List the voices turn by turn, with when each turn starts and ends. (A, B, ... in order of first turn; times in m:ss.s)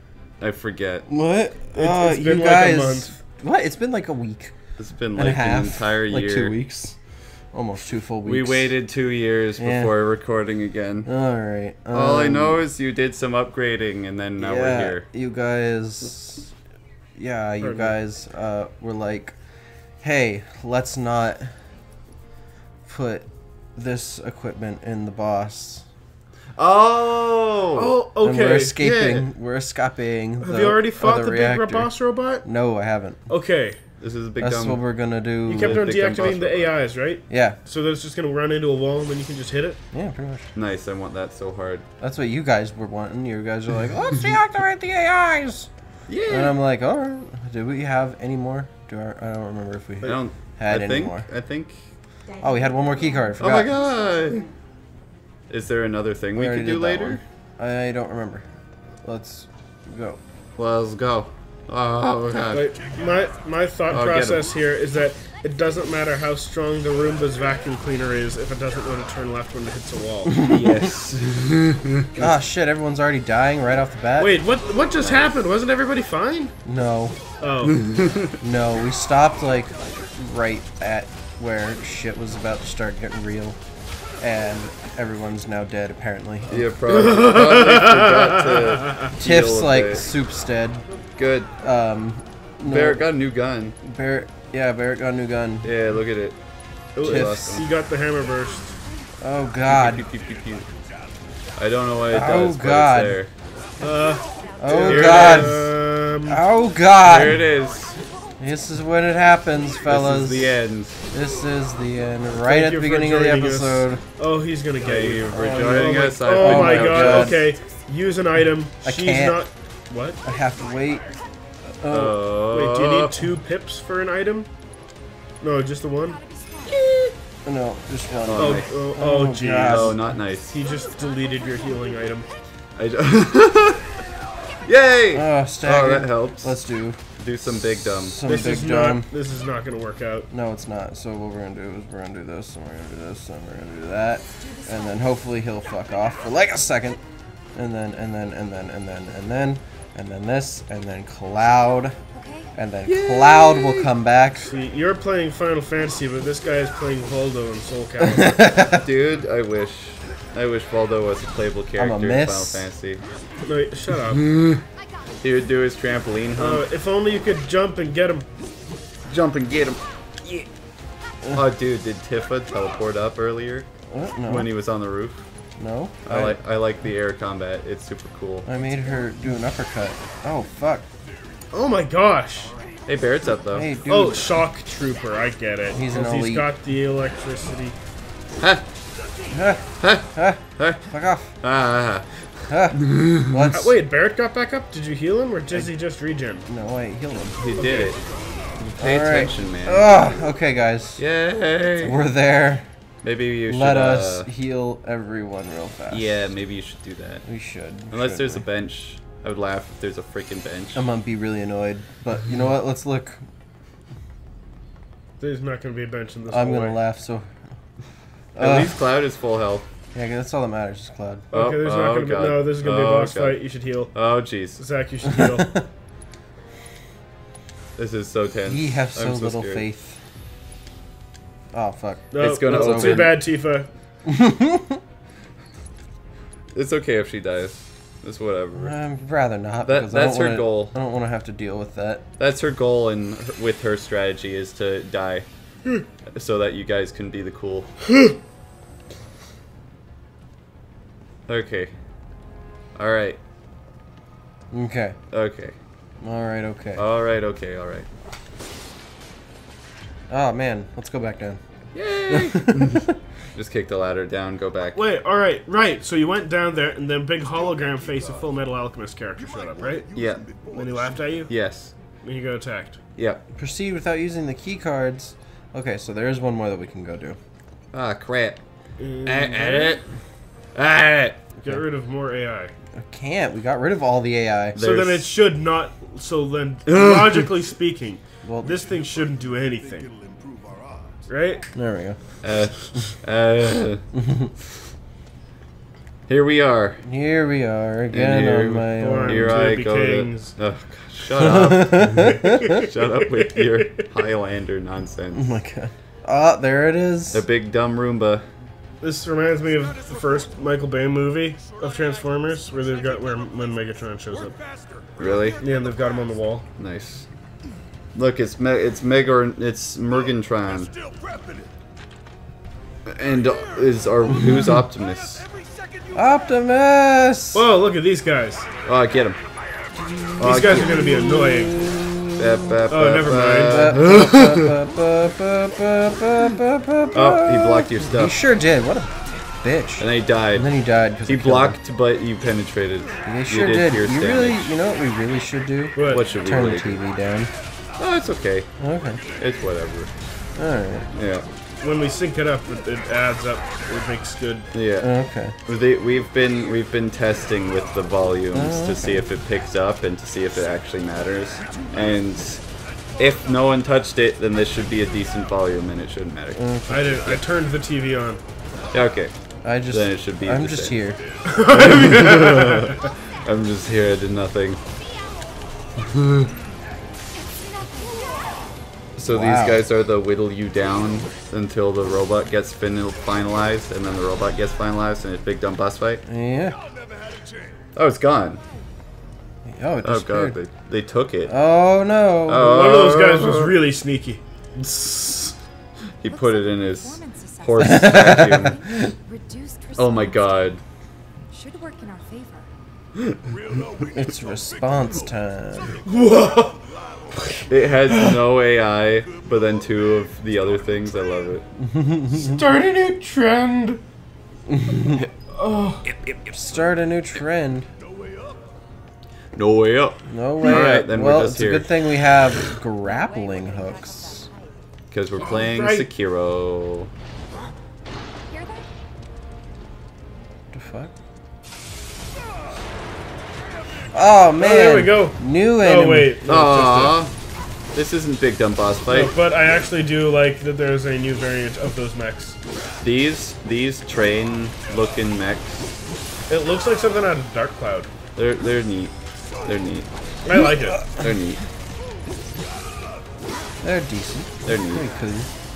0:00.4-0:01.0 A
0:01.1-0:04.5 B
0:01.7-0:03.2 C
0:04.8-0:06.6 A
0:05.2-0:07.0 B
0:07.5-0:08.7 B
0:08.2-0:11.1 A
0:09.6-0:10.0 B
0:11.0-0:12.6 B
0:11.9-0:15.0 A
0:14.4-0:16.5 B
0:17.2-0:19.3 B
0:17.6-0:17.9 C
0:20.0-0:21.5 B
0:22.9-0:25.8 B
0:26.6-0:28.0 A
0:27.8-0:28.8 C
0:28.2-0:31.9 B
0:28.8-0:29.3 A
0:30.4-0:32.5 C
0:32.4-0:33.2 B
0:33.3-0:33.8 C
0:34.0-0:34.8 A
0:34.4-0:35.9 B
0:35.4-0:39.8 C
0:35.5-0:36.7 A
0:37.3-0:37.6 B
0:39.9-0:40.5 B
0:40.5-0:41.8 A
0:42.0-0:45.7 B
0:46.1-0:46.6 A
0:46.3-0:51.3 B
0:50.0-0:51.8 A
0:52.3-0:54.5 D
0:52.4-0:53.8 B
0:53.4-0:54.5 A
0:55.5-0:57.2 A
0:56.3-0:58.4 B
0:59.0-1:00.2 B
1:00.6-1:02.7 A
1:02.5-1:10.4 C
1:03.9-1:04.5 A
1:10.2-1:10.9 B
1:10.4-1:12.3 A
1:12.2-1:14.4 B
1:14.2-1:16.5 C
1:15.0-1:15.3 B
1:16.6-1:17.2 B
1:17.4-1:17.8 C
1:17.6-1:18.3 A
1:18.4-1:23.6 B
1:24.2-1:26.7 B
1:26.5-1:30.0 A
1:26.9-1:29.1 C
1:29.2-1:30.8 B
1:31.2-1:31.5 A
1:31.6-1:33.1 B
1:32.6-1:33.8 A
1:33.8-1:35.7 B
1:35.6-1:36.4 A
1:36.9-1:38.8 C
1:37.0-1:37.6 A
1:37.0-1:37.6 B
1:39.2-1:40.0 B
1:39.6-1:40.7 A
1:41.6-1:43.3 A
1:42.1-1:43.2 B
1:43.8-1:46.4 C
1:44.6-1:45.7 B
1:44.8-1:45.7 A
1:46.2-1:47.5 B
1:47.0-1:48.0 A
1:48.4-1:54.0 B
1:49.9-1:51.0 A
1:52.4-2:00.2 C
1:54.8-1:57.5 A
1:56.4-1:57.4 B
1:58.8-1:59.4 B
2:00.2-2:01.1 B
2:01.8-2:02.2 B
2:01.9-2:03.2 A
2:02.5-2:04.5 C
2:05.4-2:06.2 C
2:06.0-2:06.8 D
2:06.7-2:07.1 A
2:07.4-2:10.1 B
2:08.3-2:08.7 A
2:08.4-2:12.3 C
2:09.6-2:10.5 A
2:10.5-2:11.7 D
2:12.8-2:13.9 A
2:14.6-2:16.6 A
2:15.1-2:17.0 B
2:17.2-2:18.2 A
2:17.8-2:19.1 B
2:18.2-2:20.3 C
2:20.3-2:27.0 B
2:24.4-2:25.1 D
2:27.5-2:32.0 B
2:32.1-2:32.5 D
2:32.5-2:34.5 B
2:32.8-2:33.9 A
2:34.4-2:38.6 C
2:38.0-2:38.8 B
2:38.7-2:43.0 A
2:41.8-2:42.6 B
2:43.4-2:44.2 C
2:44.0-2:44.6 A
2:44.8-2:45.1 D
2:45.2-2:46.6 A
2:46.4-2:48.2 C
2:49.1-2:50.4 A
2:51.3-2:53.7 A
2:53.9-2:54.5 B
2:54.3-2:55.2 A
2:55.6-2:56.4 B
2:56.0-2:58.5 A
2:58.4-3:00.9 B
3:01.5-3:02.5 C
3:02.9-3:03.7 A
3:03.5-3:04.4 B
3:03.9-3:07.8 C
3:05.7-3:06.5 B
3:09.3-3:11.3 B
3:09.8-3:10.8 A
3:11.4-3:12.1 A
3:12.5-3:13.7 B
3:12.7-3:13.5 A
3:13.5-3:16.4 C
3:16.4-3:17.5 B
3:17.4-3:18.0 A
3:17.6-3:17.9 C
3:18.6-3:20.2 A
3:18.8-3:21.0 B
3:21.0-3:22.0 A
3:21.8-3:22.6 B
3:23.0-3:24.3 A
3:23.5-3:26.3 B
3:25.9-3:27.2 A
3:27.2-3:28.5 B
3:27.9-3:30.8 A
3:30.7-3:33.2 B
3:35.2-3:36.8 C
3:36.3-3:37.3 B
3:38.4-3:38.8 B
3:38.4-3:39.7 A
3:39.9-3:41.3 B
3:41.3-3:43.9 C
3:41.3-3:43.4 A
3:43.9-3:44.6 A
3:44.6-3:45.6 C
3:45.1-3:45.6 B
3:47.8-3:49.6 A
3:48.5-3:50.0 B
3:51.5-3:53.2 B
3:52.1-3:53.7 C
3:52.2-3:53.2 A
3:54.0-3:54.8 B
3:56.5-3:58.7 A
3:58.5-4:02.0 B
3:59.6-4:00.7 A
4:02.2-4:05.2 A
4:06.1-4:07.7 A
4:07.9-4:08.2 C
4:11.3-4:11.7 A
4:12.7-4:13.2 A
4:14.5-4:15.0 B
4:15.1-4:15.6 A
4:16.0-4:16.8 B
4:16.8-4:17.9 A
4:20.1-4:21.4 B
4:21.7-4:24.8 A
4:22.1-4:22.9 B
4:24.7-4:29.9 C
4:29.9-4:30.4 A
4:30.4-4:31.3 C
4:31.3-4:31.7 A
4:32.0-4:32.8 C
4:33.0-4:33.2 A
4:33.3-4:37.2 B
4:37.7-4:38.4 A
4:38.8-4:39.8 C
4:39.0-4:39.8 A
4:40.5-4:41.2 A
4:41.4-4:42.5 C
4:42.8-4:44.6 B
4:44.5-4:45.1 A
4:44.6-4:49.9 C
4:46.6-4:47.4 A
4:48.2-4:48.8 B
4:51.1-4:51.4 C
4:51.5-4:52.0 B
4:52.2-4:53.8 A
4:53.9-4:54.3 B
4:56.1-4:56.8 A
4:56.8-4:59.4 B
4:57.9-5:05.2 A
4:58.8-5:00.4 C
5:01.2-5:02.6 B
5:02.0-5:03.9 C
5:05.1-5:07.2 B
5:07.1-5:08.2 A
5:08.8-5:14.4 C
5:15.0-5:15.4 A
5:15.4-5:16.4 C
5:16.6-5:17.1 A
5:17.9-5:20.7 A
5:22.9-5:25.2 A
5:25.9-5:27.4 B
5:27.3-5:28.4 C
5:28.6-5:29.2 A
5:29.9-5:32.2 B
5:30.2-5:31.5 A
5:30.2-5:31.7 C
5:32.2-5:34.6 A
5:32.7-5:33.8 C
5:33.4-5:41.6 B
5:36.9-5:38.1 A
5:39.8-5:40.5 A
5:41.1-5:44.5 A
5:43.0-5:47.3 B
5:45.8-5:46.0 C
5:45.8-5:46.8 A
5:47.8-5:48.5 A
5:48.6-5:49.0 B
5:49.2-5:49.9 A
5:50.4-5:50.9 B
5:50.9-5:51.2 A
5:51.6-5:54.5 C
5:54.5-5:54.9 A
5:54.8-5:55.3 B
5:55.4-6:02.4 A
5:58.3-5:59.0 B
6:03.0-6:07.2 A
6:06.4-6:07.2 B
6:06.7-6:08.2 C
6:08.7-6:09.1 A
6:09.4-6:11.0 B
6:09.7-6:10.8 A
6:11.2-6:12.8 C
6:11.4-6:14.6 A
6:15.8-6:16.3 A
6:17.1-6:18.4 D
6:19.0-6:26.0 A
6:19.0-6:19.6 B
6:26.1-6:26.6 B
6:27.7-6:28.4 A
6:28.4-6:28.6 D
6:29.4-6:30.4 B
6:29.8-6:31.3 A
6:31.3-6:32.5 B
6:32.3-6:33.6 A
6:32.4-6:34.2 C
6:34.6-6:35.3 A
6:36.0-6:38.6 A
6:36.1-6:40.6 D
6:37.6-6:38.9 B
6:39.8-6:40.6 A
6:41.3-6:42.5 D
6:43.0-6:43.4 A
6:43.9-6:45.8 B
6:45.8-6:46.6 C
6:47.1-6:48.2 C
6:47.5-6:51.4 A
6:51.6-6:52.4 B
6:52.1-6:53.8 C
6:54.5-6:55.0 B
6:55.3-6:55.8 C
6:56.0-6:56.4 A
6:56.3-6:57.7 B
6:59.3-7:01.7 A
7:00.1-7:04.3 B
7:02.8-7:04.6 D
7:04.9-7:06.9 A
7:05.2-7:05.9 C
7:08.3-7:08.7 D
7:10.5-7:10.9 B
7:13.9-7:16.2 B
7:14.4-7:17.0 C
7:16.2-7:17.1 A
7:17.7-7:19.1 A
7:18.9-7:22.4 C
7:22.8-7:25.6 A
7:26.3-7:27.9 C
7:28.1-7:28.9 A
7:29.4-7:29.9 A
7:30.2-7:30.9 C
7:30.9-7:31.4 A
7:33.6-7:35.3 B
7:34.4-7:34.8 A